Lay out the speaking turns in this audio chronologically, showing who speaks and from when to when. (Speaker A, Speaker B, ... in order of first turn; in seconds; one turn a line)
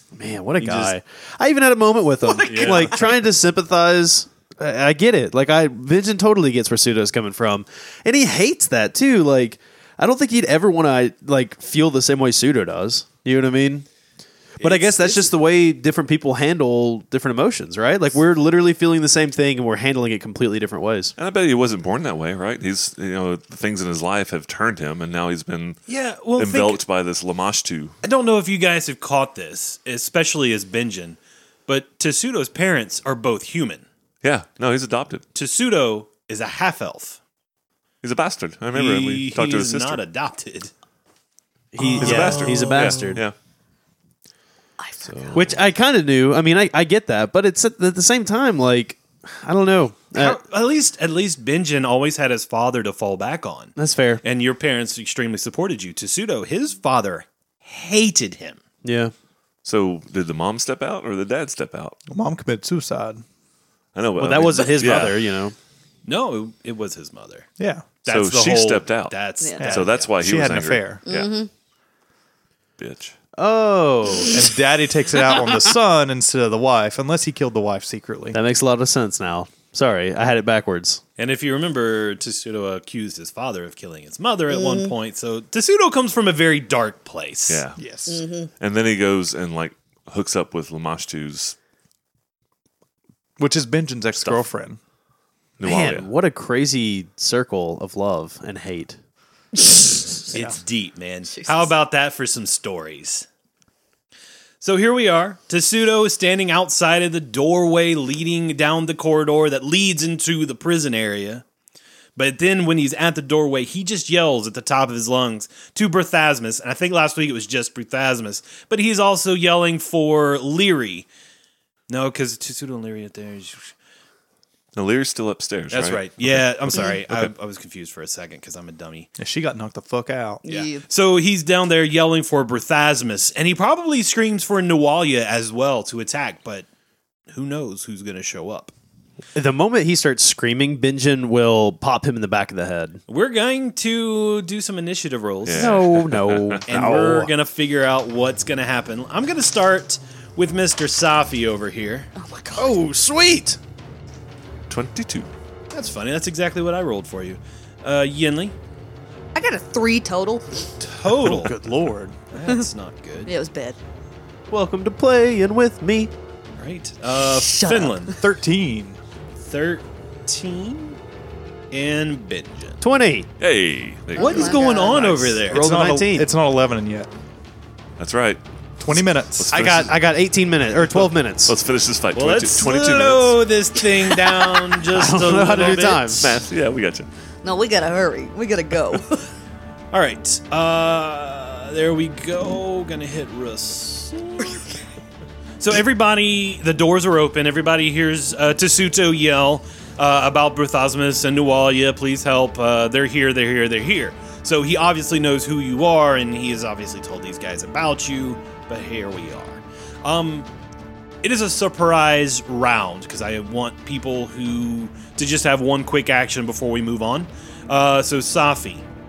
Speaker A: 0.1-13.8
Speaker B: 0.6-0.9
Speaker C: 2.2-3.2
Speaker B: 2.5-3.0
Speaker B: 14.6-15.3
Speaker A: 14.6-21.1
Speaker D: 21.1-25.8
Speaker B: 25.9-26.8
Speaker D: 26.4-27.9
Speaker B: 28.0-33.8
Speaker D: 34.2-35.2
Speaker B: 35.3-37.2
Speaker D: 38.0-40.0
Speaker B: 38.7-40.7
Speaker A: 41.7-43.2
Speaker B: 41.8-43.0
Speaker D: 41.9-43.3
Speaker C: 44.8-45.5
Speaker D: 45.0-45.6
Speaker A: 45.3-50.4
Speaker B: 50.1-58.6
Speaker A: 53.8-54.2
Speaker A: 58.8-59.1
Speaker D: 59.6-62.0
Speaker E: 62.1-63.2
Speaker D: 63.9-65.3
Speaker A: 64.2-65.5
Speaker B: 66.0-67.5
Speaker E: 67.6-67.9
Speaker B: 68.0-70.1
Speaker D: 68.1-71.3
Speaker C: 69.4-69.7
Speaker E: 69.6-71.0
Speaker C: 71.0-71.5
Speaker D: 72.8-73.2
Speaker A: 73.3-74.3
Speaker E: 74.3-78.4
Speaker A: 78.3-81.0
Speaker B: 81.2-87.6
Speaker C: 84.5-84.9
Speaker D: 87.5-87.8
Speaker E: 87.8-88.2
Speaker C: 88.1-88.5
Speaker D: 88.6-91.5
Speaker E: 93.4-94.8
Speaker D: 94.2-94.5
Speaker D: 95.6-96.1
Speaker A: 95.6-99.0
Speaker B: 100.3-103.2
Speaker E: 100.3-100.6
Speaker C: 101.4-101.7
Speaker B: 104.6-111.4
Speaker B: 112.2-121.1
Speaker B: 121.9-123.7
Speaker D: 124.7-127.3
Speaker B: 125.7-129.1
Speaker E: 129.2-130.4
Speaker C: 130.4-130.8
Speaker B: 130.5-136.7
Speaker B: 137.3-138.7
Speaker A: 139.3-143.0
Speaker B: 143.1-145.9
Speaker D: 145.4-146.6
Speaker A: 145.5-147.3
Speaker B: 146.7-152.1
Speaker C: 152.2-152.8
Speaker A: 152.5-153.6
Speaker D: 154.7-155.3
Speaker B: 155.7-158.5
Speaker C: 159.3-160.6
Speaker B: 160.8-161.6
Speaker E: 161.1-162.2
Speaker B: 162.3-163.3
Speaker C: 163.2-163.8
Speaker A: 164.5-166.1
Speaker B: 166.6-168.2
Speaker C: 167.2-168.2
Speaker E: 168.2-169.0
Speaker B: 169.4-171.0
Speaker B: 171.7-172.8
Speaker A: 172.8-173.3
Speaker D: 173.4-175.4
Speaker C: 174.1-175.1
Speaker B: 174.2-175.6
Speaker E: 175.5-177.1
Speaker A: 175.5-176.3
Speaker D: 178.0-178.4
Speaker E: 178.8-179.9
Speaker D: 179.3-180.0
Speaker A: 179.5-181.6
Speaker D: 180.9-183.4
Speaker B: 182.1-186.2
Speaker A: 184.8-186.4
Speaker D: 186.2-187.1
Speaker C: 187.4-189.3
Speaker B: 189.9-194.6
Speaker B: 195.6-210.5
Speaker B: 211.2-218.8